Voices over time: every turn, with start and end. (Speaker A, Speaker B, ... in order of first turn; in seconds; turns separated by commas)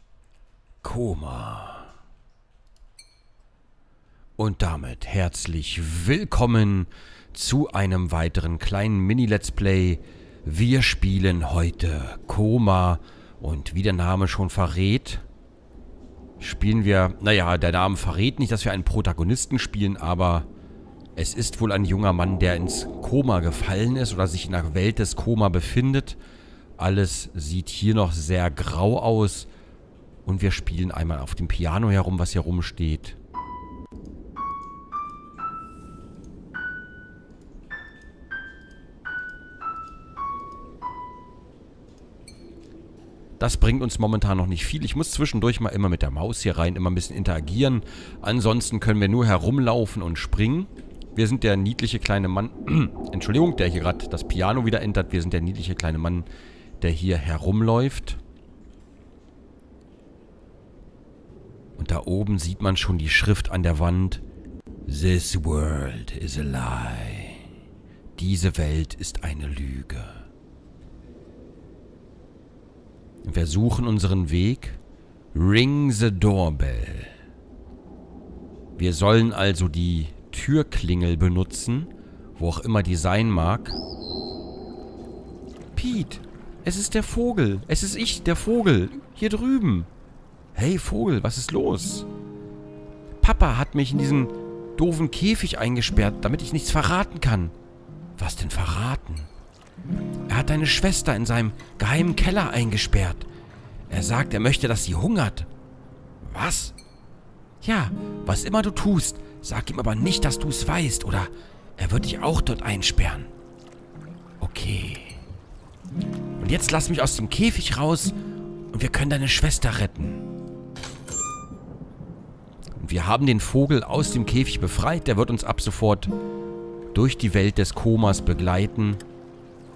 Speaker A: 0.8-1.9, Speaker A: 4.4-15.2, Speaker A: 16.4-20.5, Speaker A: 21.2-26.2, Speaker A: 26.8-29.5, Speaker A: 30.2-33.2, Speaker A: 43.4-56.3, Speaker A: 56.8-58.2, Speaker A: 61.8-64.2, Speaker A: 64.9-67.5, Speaker A: 68.2-70.3, Speaker A: 73.2-74.8, Speaker A: 75.3-77.2, Speaker A: 78.8-83.8, Speaker A: 85.8-89.9, Speaker A: 90.5-92.1, Speaker A: 93.2-97.5, Speaker A: 98.2-99.3, Speaker A: 100.3-103.3, Speaker A: 103.9-105.5, Speaker A: 106.2-106.8, Speaker A: 107.6-113.3, Speaker A: 114.4-115.2, Speaker A: 116.4-118.2, Speaker A: 118.7-120.2, Speaker A: 122.8-126.1, Speaker A: 126.9-129.0